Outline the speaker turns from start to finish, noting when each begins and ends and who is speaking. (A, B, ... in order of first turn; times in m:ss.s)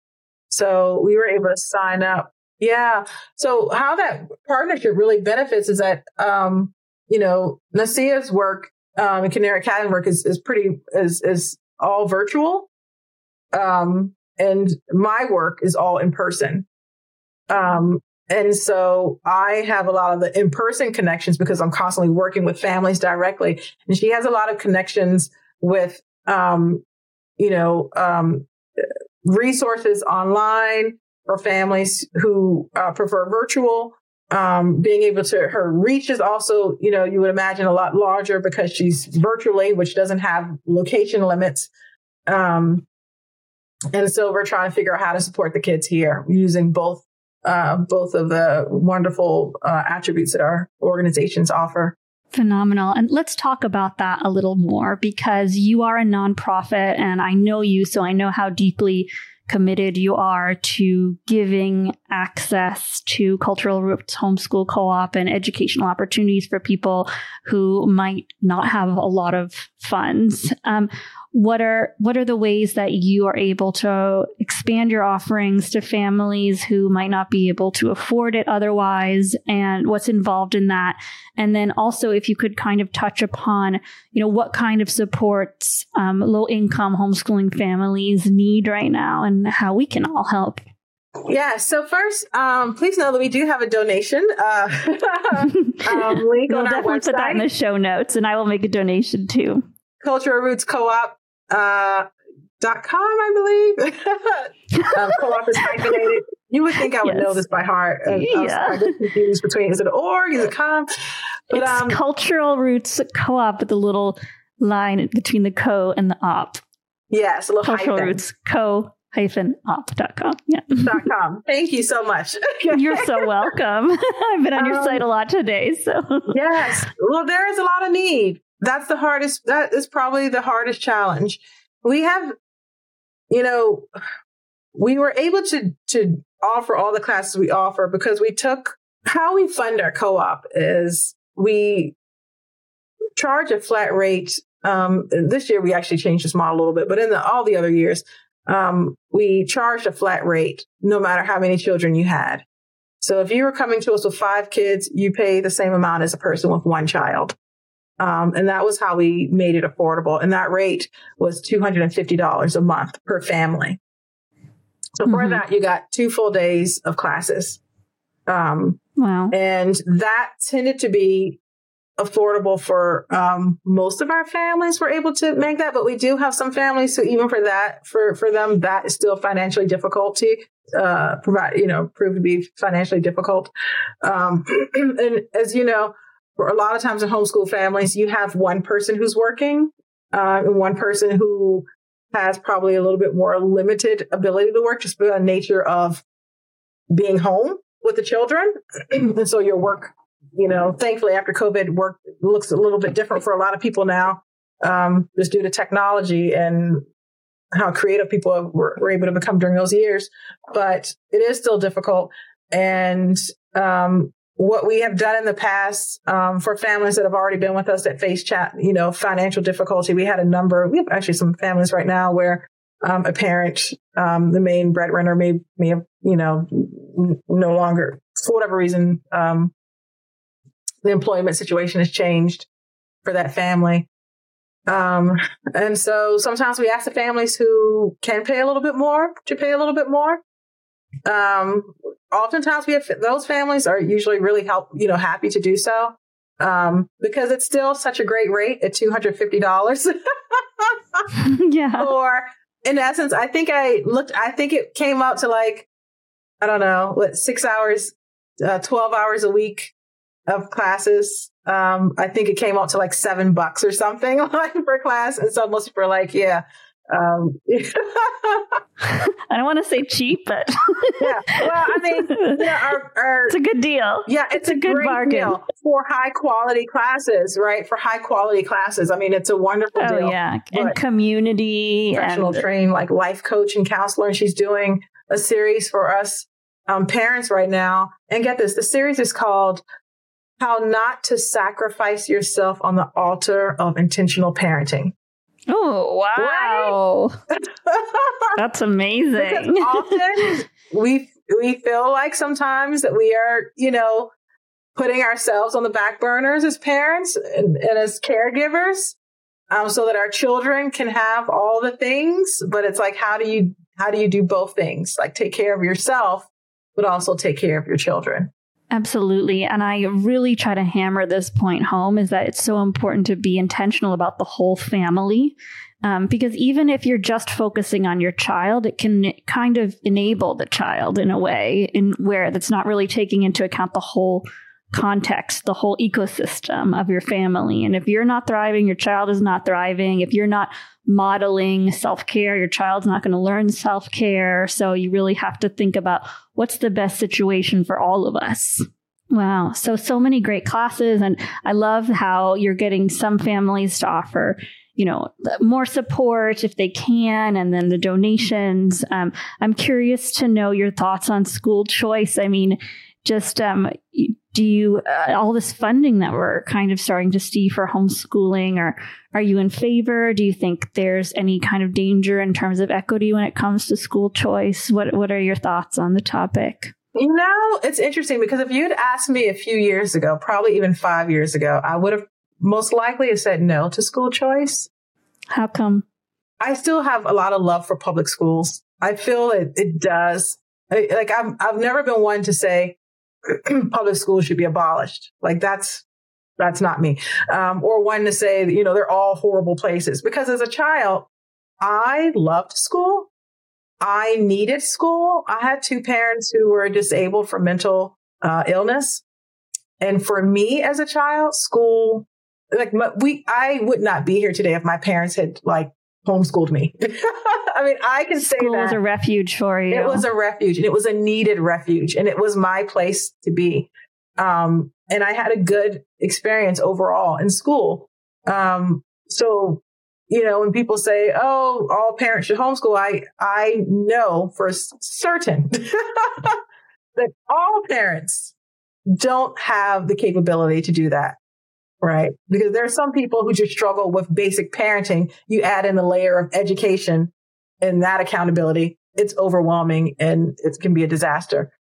0:00.5-0:12.7 A
0:13.5-0:16.6 A
0:17.5-0:26.8 A
0:27.4-0:28.5 A
0:29.2-0:41.7 A
0:42.3-0:42.8 A
0:43.9-0:52.0 A
0:52.3-1:30.6 B
1:31.3-1:37.4 A
1:35.4-1:39.6 B
1:40.0-1:42.1 A
1:42.6-1:50.9 A
1:44.7-1:46.1 B
1:47.0-1:47.4 B
1:48.1-1:48.9 B
1:51.5-1:52.0 A
1:51.5-1:56.6 B
1:57.1-1:58.2 A
1:57.6-2:01.0 B
2:00.8-2:03.3 A
2:02.7-2:06.9 B
2:04.5-2:05.0 A
2:06.3-2:12.3 A
2:13.3-2:13.9 A
2:14.7-2:22.0 A
2:23.2-2:32.4 A
2:33.0-2:37.4 A
2:38.0-2:43.8 A
2:45.0-2:47.6 A
2:45.1-2:45.4 B
2:48.3-2:48.8 A
2:49.0-2:49.3 B
2:49.3-2:51.4 A
2:52.0-3:03.5 A
3:04.0-3:16.0 A
3:16.9-3:26.8 A
3:27.5-3:49.5 A
3:50.8-3:52.5 A
3:53.0-3:53.9 A
3:54.7-4:00.2 A
4:01.0-4:11.0 A
4:11.1-4:11.9 B
4:11.8-4:15.7 A
4:16.4-4:19.7 A
4:20.3-4:28.6 A
4:28.8-4:32.5 B
4:31.0-4:33.3 A
4:33.3-4:35.4 B
4:34.0-4:40.8 A
4:39.8-4:42.4 B
4:41.9-4:49.6 A
4:50.4-4:54.9 A
4:55.5-4:57.2 B
4:56.2-4:56.8 A
4:57.6-4:58.3 A
4:58.4-5:00.4 B
4:59.2-5:04.1 A
5:04.8-5:09.0 A
5:09.5-5:18.3 A
5:18.7-6:16.7 B
6:16.9-6:24.7 A
6:25.3-6:25.8 B
6:26.4-6:35.8 A
6:36.4-6:41.1 A
6:41.6-6:43.1 A
6:43.8-6:49.0 A
6:49.8-6:58.8 A
6:58.1-7:00.0 B
6:59.7-7:16.4 A
7:17.0-7:18.3 A
7:18.9-7:21.2 A
7:21.8-7:31.5 A